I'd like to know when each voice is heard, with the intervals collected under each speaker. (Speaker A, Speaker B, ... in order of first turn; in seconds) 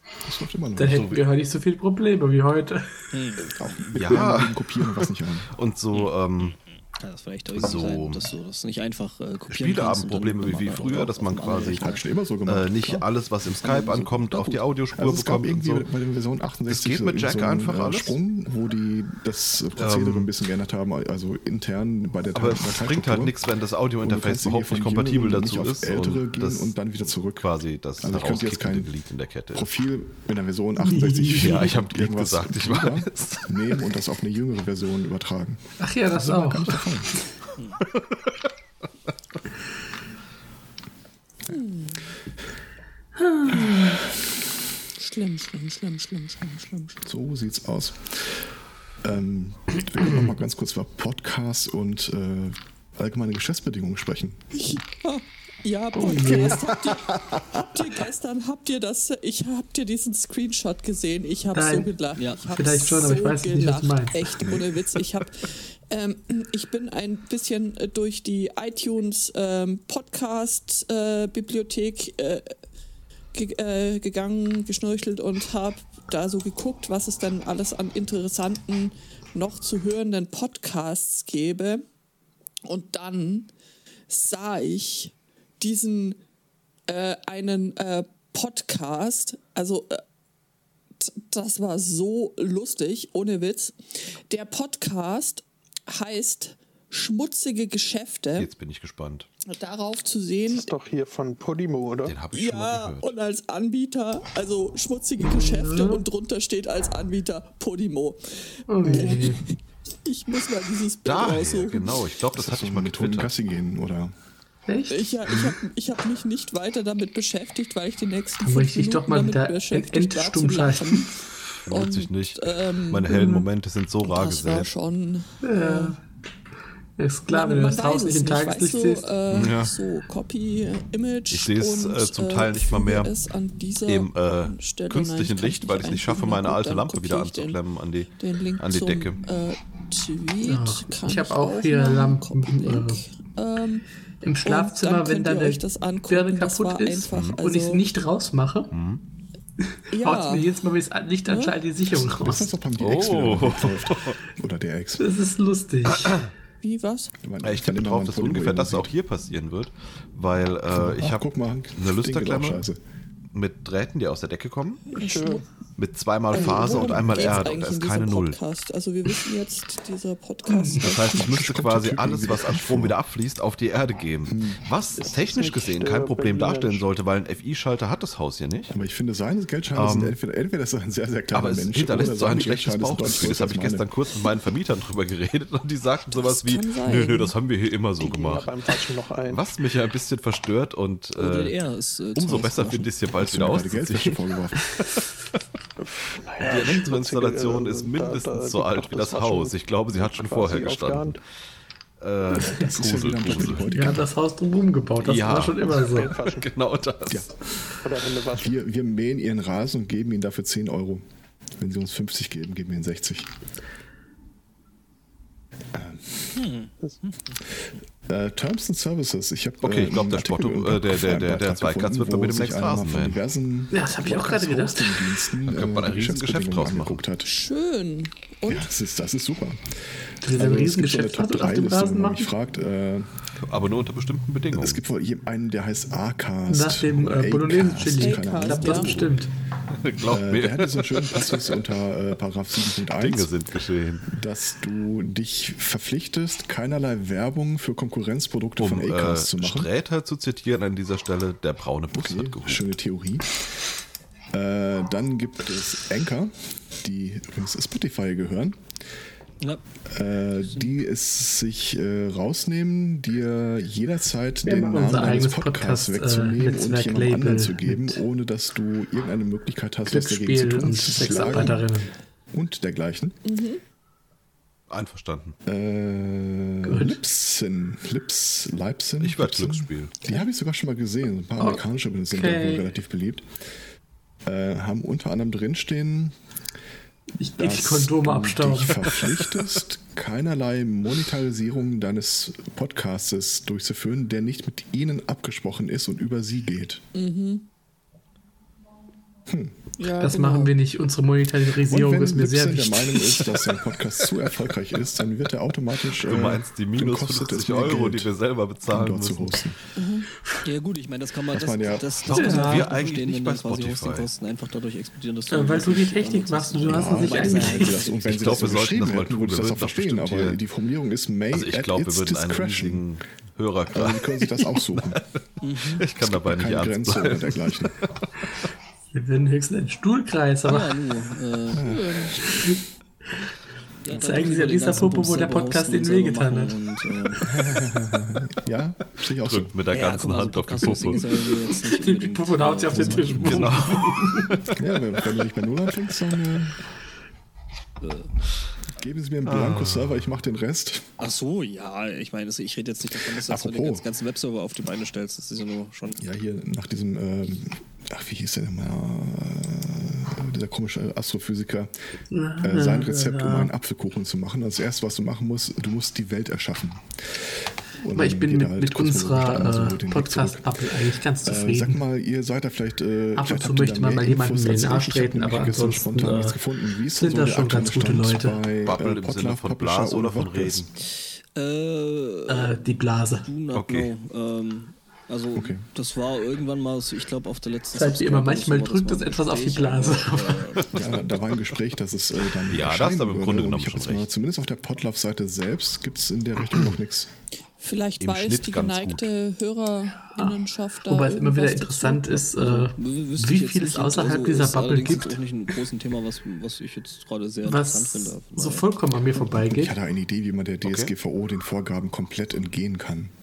Speaker A: 0.2-1.2, 3.6-5.5, 11.8-13.1, 14.9-23.3, 24.0-28.9, 29.5-35.6, 36.1-37.1, 43.5-43.9, 47.0-48.3, 49.0-54.4, 64.4-64.7, 112.3-114.1, 151.9-155.1, 157.2-158.9, 160.7-162.8, 170.8-173.0, 174.3-174.6, 178.7-183.9, 193.1-194.7, 202.5-204.1, 207.1-207.3, 208.3-211.0, 211.6-213.3, 215.7-216.2, 218.1-227.3, 228.5-233.1, 234.5-239.1, 240.0-243.3, 244.1-249.7, 251.9-253.3, 254.3-258.6, 259.9-271.7, 272.3-273.2, 275.4-283.3, 284.2-286.1, 287.4-296.8, 299.3-299.6, 301.6-308.1, 308.7-309.6, 311.3-311.9, 316.7-322.8, 323.7-325.0, 326.0-327.7, 331.5-332.1, 337.2-339.5, 342.7-343.6, 344.5-346.6, 348.8-350.8, 353.1-353.9, 356.0-361.7, 362.4-367.3, 367.8-380.6, 385.3-385.6, 390.7-397.1, 409.1-413.1
Speaker B: 0.8-3.0, 30.8-31.7, 35.8-36.9, 43.2-44.0, 50.0-50.3, 55.9-56.6, 61.5-61.9, 62.5-64.2, 105.2-106.0, 108.7-109.4, 114.7-115.1, 118.4-121.2, 125.4-126.0, 127.0-129.1, 140.4-143.0, 144.2-148.7, 149.9-152.5, 155.0-156.2, 170.4-170.8, 202.3-202.7, 203.4-206.1, 223.7-225.0, 230.2-232.3, 236.5-239.3, 264.4-268.0, 269.9-271.9, 276.6-277.0, 281.4-282.7, 287.2-289.0, 300.0-303.2, 312.1-312.7, 315.3-317.8, 328.9-330.8, 332.2-332.6, 333.9-336.5, 341.2-344.4, 362.1-363.5, 367.9-371.8, 373.1-376.4, 376.9-378.4, 382.3-383.2, 387.7-390.4, 400.1-405.2, 407.4-409.7
Speaker C: 3.1-3.8, 5.9-12.0, 13.6-14.6, 62.1-62.4, 191.2-192.9, 216.3-217.4, 310.4-318.6, 325.4-325.9, 330.4-331.7, 333.8-337.2, 339.7-343.5, 347.8-348.1, 351.0-356.0, 380.8-391.0, 402.4-408.7
Speaker D: 3.9-6.5, 7.5-8.3, 9.5-11.8, 12.4-15.8, 16.7-18.2, 19.8-20.3, 22.3-26.7, 27.3-29.7, 31.4-33.5, 37.9-38.2, 98.3-99.3, 102.0-103.1, 111.0-113.3, 121.7-124.7, 129.3-129.7, 131.3-133.1, 133.8-139.2, 147.1-147.4, 148.7-149.0, 152.8-154.2, 157.4-161.2, 161.8-162.6, 163.3-164.9, 165.8-168.4, 170.8-178.7, 179.7-180.2, 181.3-188.5, 189.3-191.6, 192.2-195.1, 196.4-201.2, 202.0-203.7, 205.0-207.3, 219.6-223.2, 225.4-227.0, 233.4-234.8, 239.7-241.6, 242.8-244.1, 248.6-252.7, 274.7-275.4, 279.0-279.9, 305.9-309.4, 312.0-314.1, 318.0-320.4, 321.3-324.1, 325.6-328.5, 339.2-341.1, 343.2-344.6, 349.2-350.0, 378.6-380.7, 383.5-383.9, 392.5-394.1, 398.0-399.1, 410.6-410.9
Speaker E: 41.5-42.0, 43.5-44.0, 45.0-47.0, 54.5-72.5, 73.3-81.8, 82.7-83.5, 84.1-86.2, 86.9-90.0, 91.0-98.5, 99.5-100.7, 102.3-112.0, 114.9-123.5, 124.0-126.0, 127.3-137.6, 138.2-143.8, 144.4-147.8, 149.9-150.5, 151.3-151.6, 156.6-157.1, 164.9-165.4, 166.3-171.2, 186.1-187.3, 227.2-228.7, 237.9-239.0, 273.2-273.6, 296.9-297.5, 299.8-300.5, 309.8-310.1, 331.6-332.2, 397.6-402.2
Speaker F: 100.5-102.2, 164.9-165.4, 166.3-167.1, 175.0-176.9, 188.0-189.4, 195.8-201.2, 205.9-206.5, 207.8-208.5